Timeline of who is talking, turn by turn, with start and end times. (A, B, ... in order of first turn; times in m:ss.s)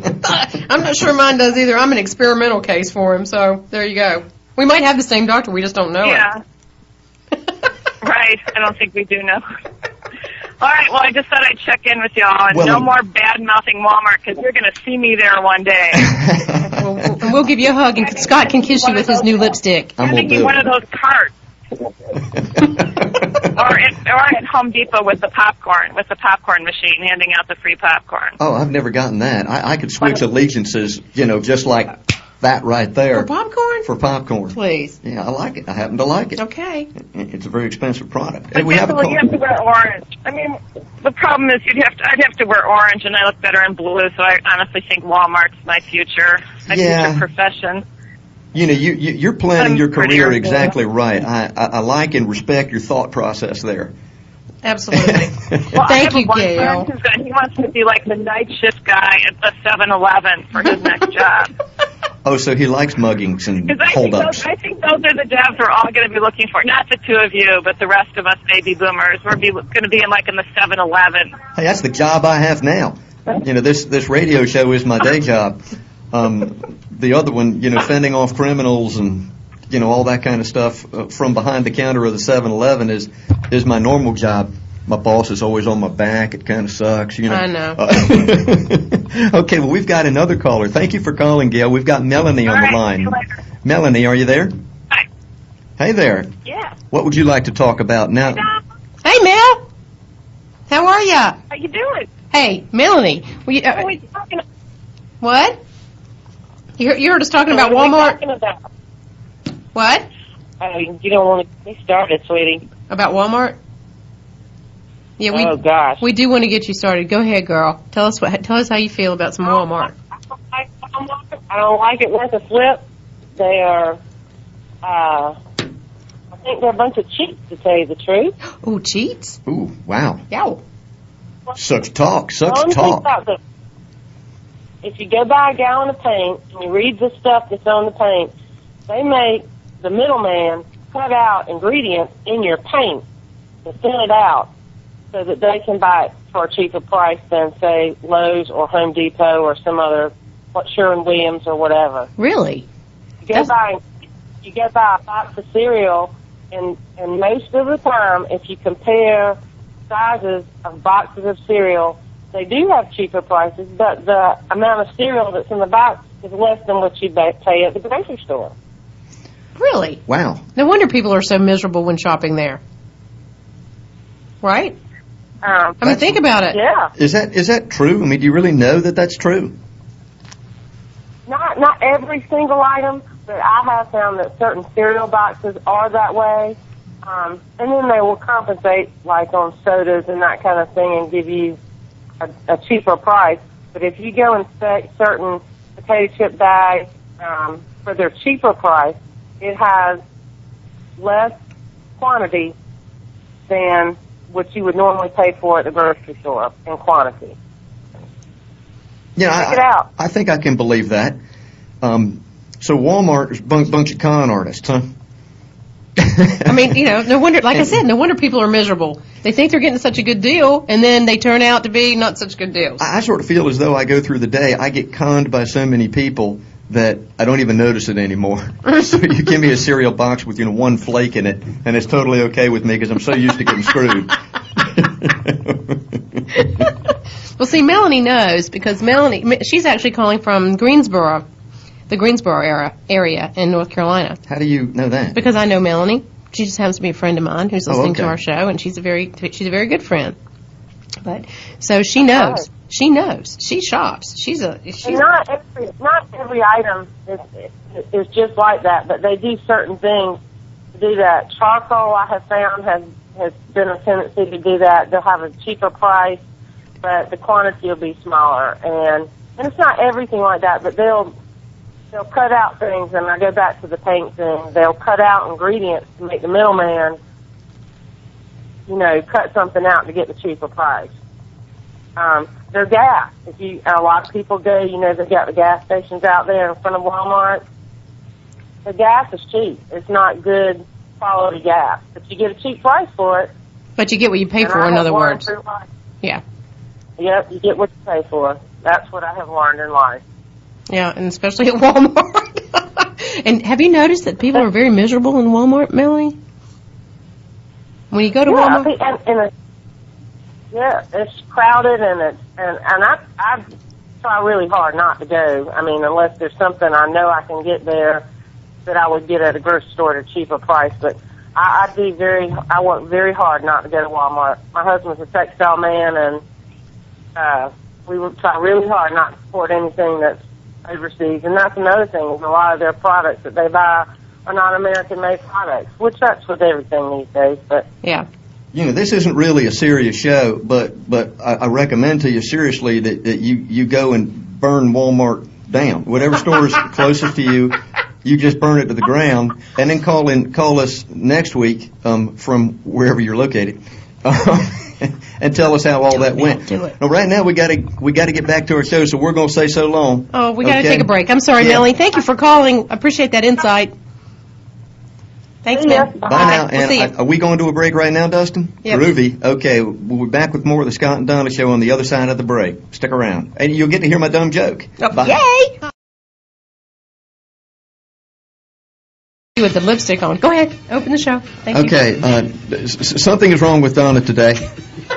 0:00.2-0:06.3 A
0:06.0-0:06.4 B
0:08.0-0:09.4 B
0:10.6-0:16.1 B
0:12.5-0:12.9 C
0:16.0-0:16.8 C
0:16.7-0:20.0 A
0:18.8-0:19.4 B
0:20.0-0:20.7 C
0:20.0-0:21.9 B
0:22.4-0:23.5 C
0:23.4-0:28.4 B
0:28.4-0:33.3 C
0:33.1-0:33.9 A
0:33.8-0:36.4 C
0:34.5-0:35.0 A
0:36.4-0:36.9 A
0:37.0-0:39.3 C
0:38.5-0:47.8 B
0:46.7-0:47.2 C
0:48.5-0:53.9 C
0:49.6-0:50.7 B
0:54.6-0:56.9 A
0:54.9-0:55.7 C
0:55.7-1:01.5 B
1:02.2-1:04.5 C
1:03.6-1:11.3 B
1:11.5-1:34.5 C
1:27.3-1:27.8 A
1:32.5-1:33.2 B
1:35.8-1:36.3 C
1:36.4-1:36.7 B
1:36.9-1:38.5 C
1:39.0-1:39.6 A
1:40.7-1:41.4 A
1:41.5-1:42.1 B
1:42.3-1:43.9 A
1:45.2-1:45.6 A
1:46.8-1:48.2 A
1:47.5-1:48.6 D
1:49.7-1:50.1 A
1:50.6-1:52.6 D
1:52.9-1:53.6 A
1:55.2-1:59.9 A
1:55.3-1:56.0 D
2:00.5-2:02.8 D
2:03.4-2:04.0 D
2:04.8-2:05.4 D
2:06.4-2:08.3 D
2:08.6-2:09.4 A
2:09.5-2:10.3 C
2:10.3-2:10.6 A
2:11.5-2:13.1 C
2:12.4-2:13.4 D
2:14.8-2:18.3 D
2:18.9-2:23.0 D
2:23.6-2:24.5 D
2:25.1-2:32.1 D
2:32.2-2:32.6 A
2:33.2-2:33.8 D
2:34.4-2:39.4 D
2:39.9-2:48.5 D
2:49.6-2:50.0 A
2:50.1-2:50.4 C
2:50.6-2:52.6 A
2:54.4-2:54.8 A
2:55.4-2:55.8 D
2:55.8-2:56.6 A
2:55.8-2:56.1 C
2:56.5-2:56.9 D
2:57.0-2:59.5 C
3:01.3-3:11.6 D
3:12.2-3:20.0 D
3:21.0-3:21.4 D
3:22.0-3:22.5 D
3:23.5-3:27.4 D
3:29.2-3:31.2 C
3:29.4-3:29.9 D
3:31.8-3:34.9 C
3:36.0-3:36.7 C
3:36.4-3:42.8 A
3:42.8-3:56.6 C
3:57.4-4:01.2 A
4:01.9-4:04.2 A
4:04.3-4:05.2 C
4:05.1-4:10.2 A
4:07.7-4:08.1 C
4:11.0-4:15.0 A
4:12.1-4:12.4 D
4:14.8-4:20.2 D
4:20.8-4:26.2 D
4:26.8-4:31.1 D
4:31.9-4:37.0 D
4:38.7-4:40.9 D
4:42.0-4:47.4 D
4:48.6-4:53.3 D
4:53.8-4:55.2 A
4:54.4-4:55.6 D
4:57.0-5:00.0 D
5:00.7-5:06.2 A
5:07.9-5:08.7 A
5:08.3-5:09.3 D
5:10.5-5:13.4 D
5:14.0-5:18.0 D
5:18.6-5:26.2 D
5:27.2-5:37.7 D
5:38.5-6:01.6 C
5:56.2-5:56.7 A
6:00.1-6:03.7 A
6:05.4-6:06.9 A
6:05.5-6:06.3 D
6:06.0-6:15.2 C
6:14.8-6:15.6 A
6:19.4-6:21.8 A
6:21.5-6:24.4 C